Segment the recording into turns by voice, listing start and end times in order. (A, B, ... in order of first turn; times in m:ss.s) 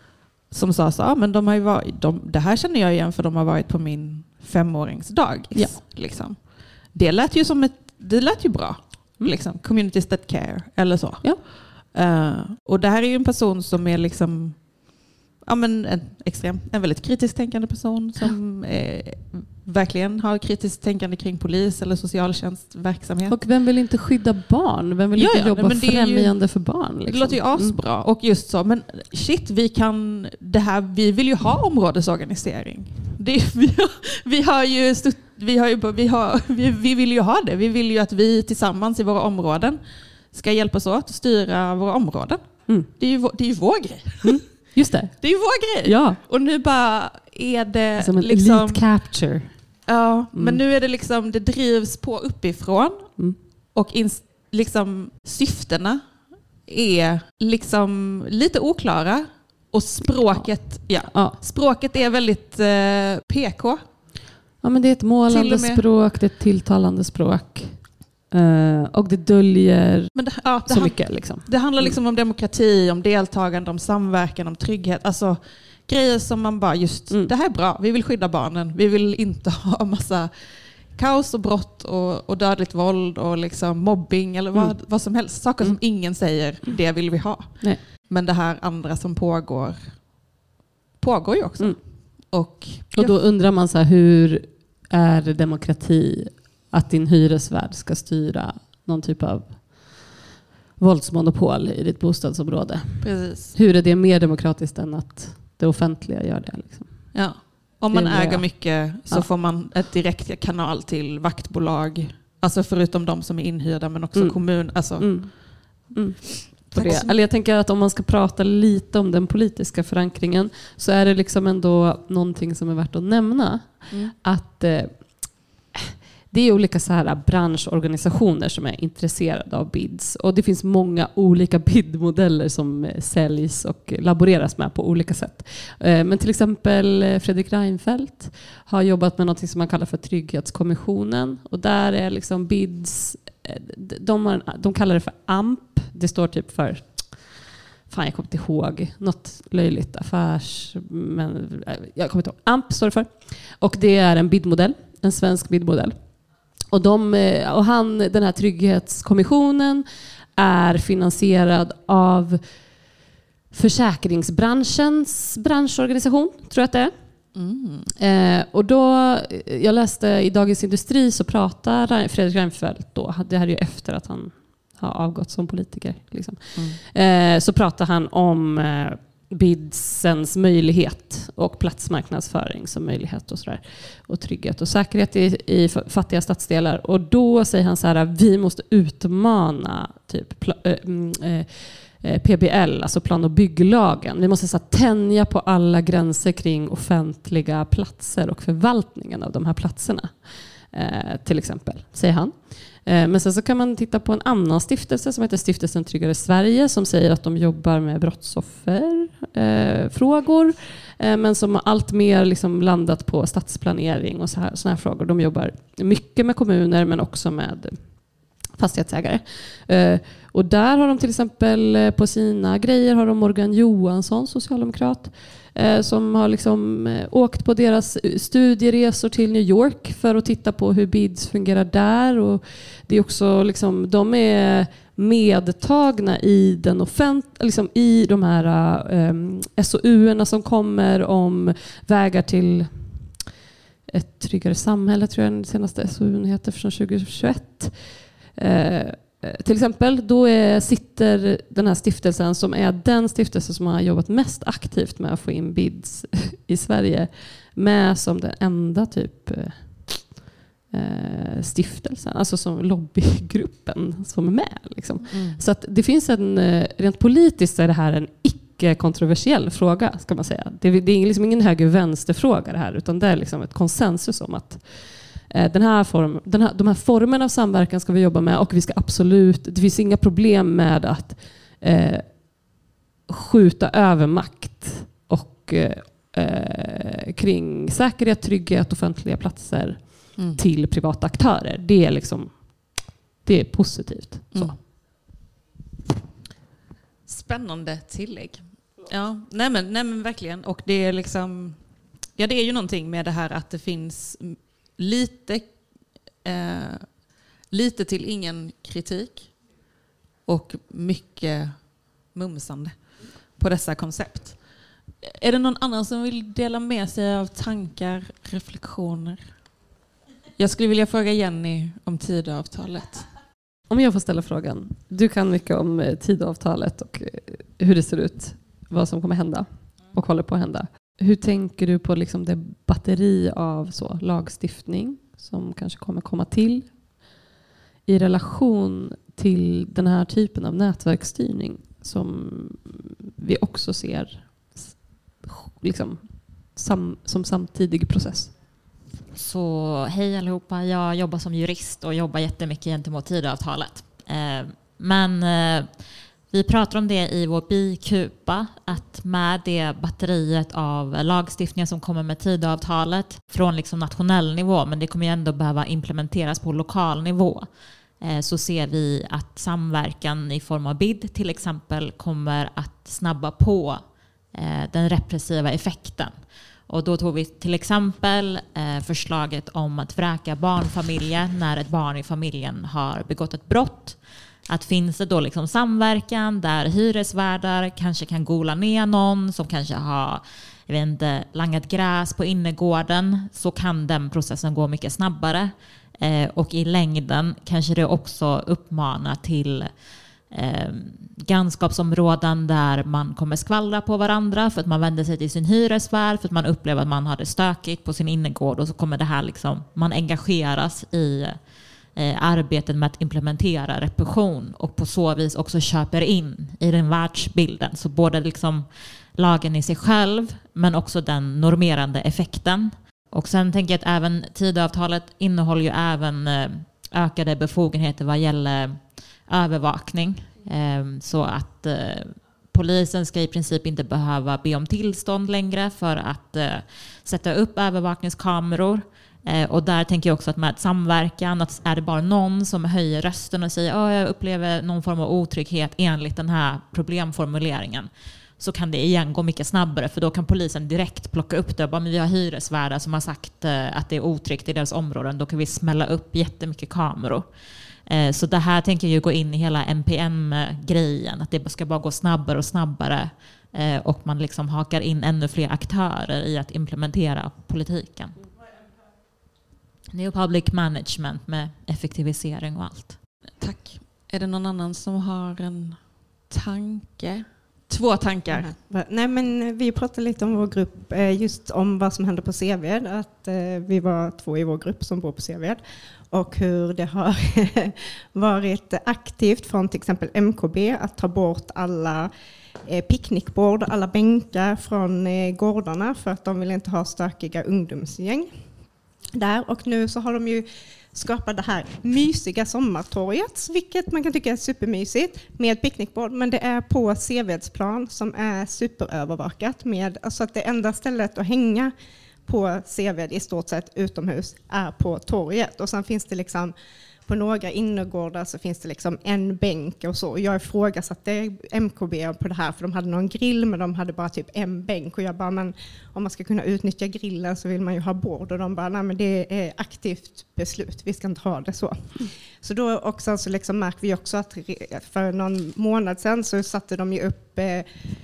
0:00.5-0:23.4 A
0:05.5-0:05.8 B
0:23.3-0:27.8 B
0:25.2-0:49.2 A
0:44.2-0:46.2 B
0:48.0-0:49.6 B
0:49.8-1:03.8 A
0:50.3-0:50.6 B
1:00.0-1:01.4 B
1:04.6-1:12.0 B
1:05.3-1:05.8 A
1:10.1-1:30.3 A
1:24.5-1:25.8 B
1:31.0-1:33.1 A
1:31.6-1:32.3 B
1:32.9-1:40.2 B
1:40.8-1:49.3 B
1:43.0-1:43.6 A
1:47.1-1:55.4 A
1:54.1-2:42.9 B
1:56.6-1:57.1 A
2:43.5-2:46.9 B
2:47.3-2:47.9 A
2:48.0-4:03.1 B
4:03.9-4:42.6 B
4:25.1-4:25.4 A
4:43.1-4:54.6 B
4:50.2-4:50.4 A
4:54.3-4:54.6 A
4:57.0-5:01.6 A
5:02.1-5:05.6 A
5:06.2-5:09.5 A
5:10.2-5:14.5 A
5:15.0-5:19.3 A
5:20.4-5:23.1 A
5:23.7-5:37.2 B
5:37.8-5:48.4 B
5:49.1-6:39.7 C
6:40.3-6:51.4 C
6:51.9-7:48.2 C
7:49.9-7:53.0 C
7:53.4-7:58.5 A
7:58.3-8:12.1 D
8:12.7-8:18.3 D
8:19.1-8:31.7 D
8:32.2-8:36.5 D
8:37.0-8:57.6 D